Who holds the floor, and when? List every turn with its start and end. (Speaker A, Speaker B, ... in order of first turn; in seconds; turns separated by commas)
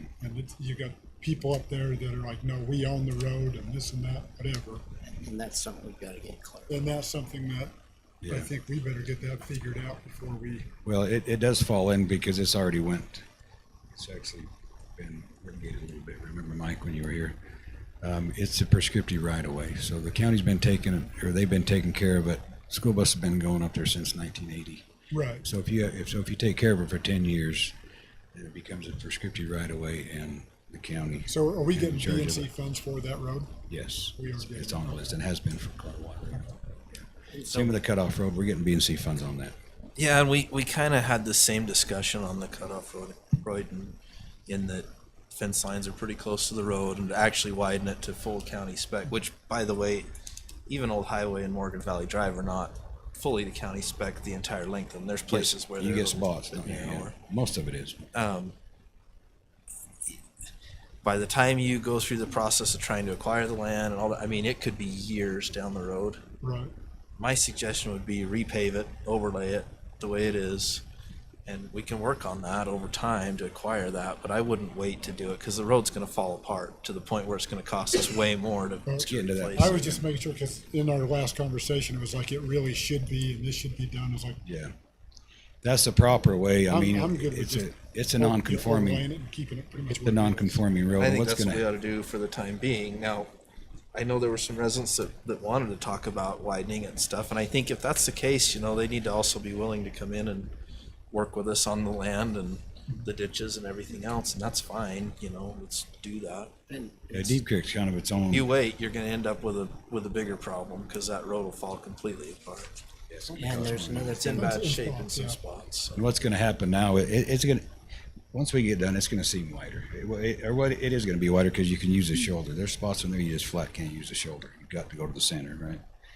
Speaker A: 0.2-4.8, Speaker B: 5.0-6.9, Speaker A: 6.7-7.7, Speaker C: 8.2-8.5, Speaker A: 8.3-10.7, Speaker C: 10.8-13.2, Speaker C: 13.9-17.4, Speaker C: 18.0-24.9, Speaker A: 25.1-25.4, Speaker C: 25.4-27.7, Speaker C: 28.3-32.5, Speaker A: 31.3-33.5, Speaker C: 33.7-39.5, Speaker A: 34.1-35.1, Speaker B: 37.3-37.8, Speaker D: 40.0-50.1, Speaker D: 50.7-57.1, Speaker C: 55.3-58.1, Speaker D: 58.1-58.5, Speaker D: 61.0-66.2, Speaker A: 66.4-66.7, Speaker D: 67.2-70.8, Speaker D: 71.4-80.0, Speaker A: 78.8-84.4, Speaker C: 79.0-80.0, Speaker C: 84.4-84.7, Speaker C: 85.6-89.1, Speaker A: 86.7-90.6, Speaker C: 89.9-91.6, Speaker D: 91.0-93.3, Speaker D: 93.9-100.5, Speaker D: 101.1-106.5, Speaker B: 106.7-107.4, Speaker C: 107.1-108.5, Speaker D: 108.3-112.7, Speaker C: 113.1-114.2, Speaker B: 113.3-114.5, Speaker D: 113.4-116.0, Speaker A: 114.3-115.4, Speaker C: 115.9-117.7, Speaker C: 118.3-125.8